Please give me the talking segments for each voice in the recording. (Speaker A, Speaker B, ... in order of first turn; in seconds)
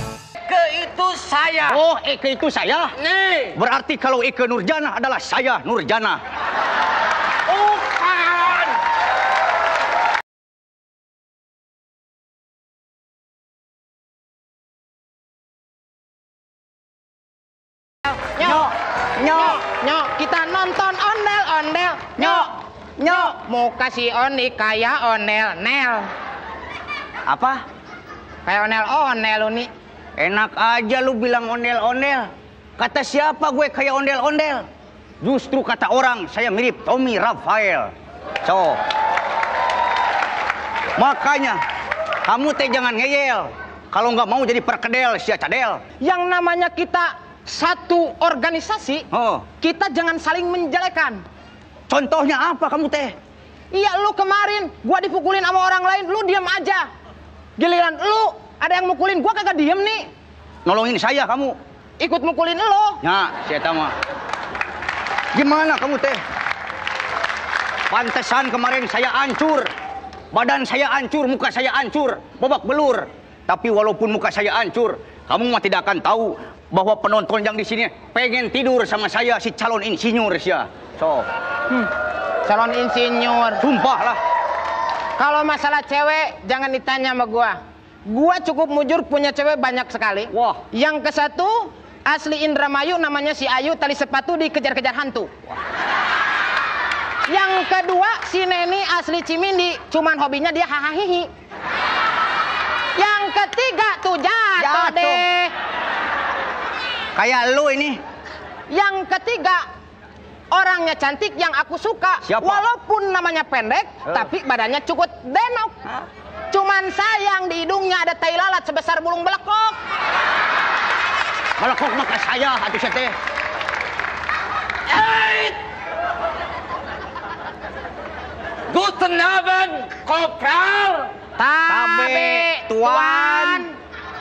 Speaker A: 0.4-1.8, 3.0-3.6, 7.5-8.8, 124.9-125.6, 128.7-131.1
Speaker B: 1.7-2.9, 3.5-6.2, 18.4-19.6, 22.2-23.3, 27.3-27.6, 30.2-34.6, 35.2-37.9, 38.4-38.8, 41.0-41.6, 42.2-45.8, 49.1-49.4, 51.9-53.1, 60.6-61.5, 63.0-63.9, 65.3-66.2, 67.9-69.7, 70.3-81.2, 83.6-84.2, 90.3-90.6, 104.6-105.2, 107.2-108.0, 112.2-112.6, 121.6-123.1, 131.7-133.7
Speaker C: 18.2-18.6, 19.3-26.1, 28.4-29.7, 46.0-49.1, 49.6-51.2, 53.7-56.9, 57.6-60.1, 62.0-63.0, 82.4-83.6, 85.2-95.3, 97.3-101.3, 103.0-105.5, 108.7-109.6, 110.5-115.9, 116.5-119.8, 131.4-133.7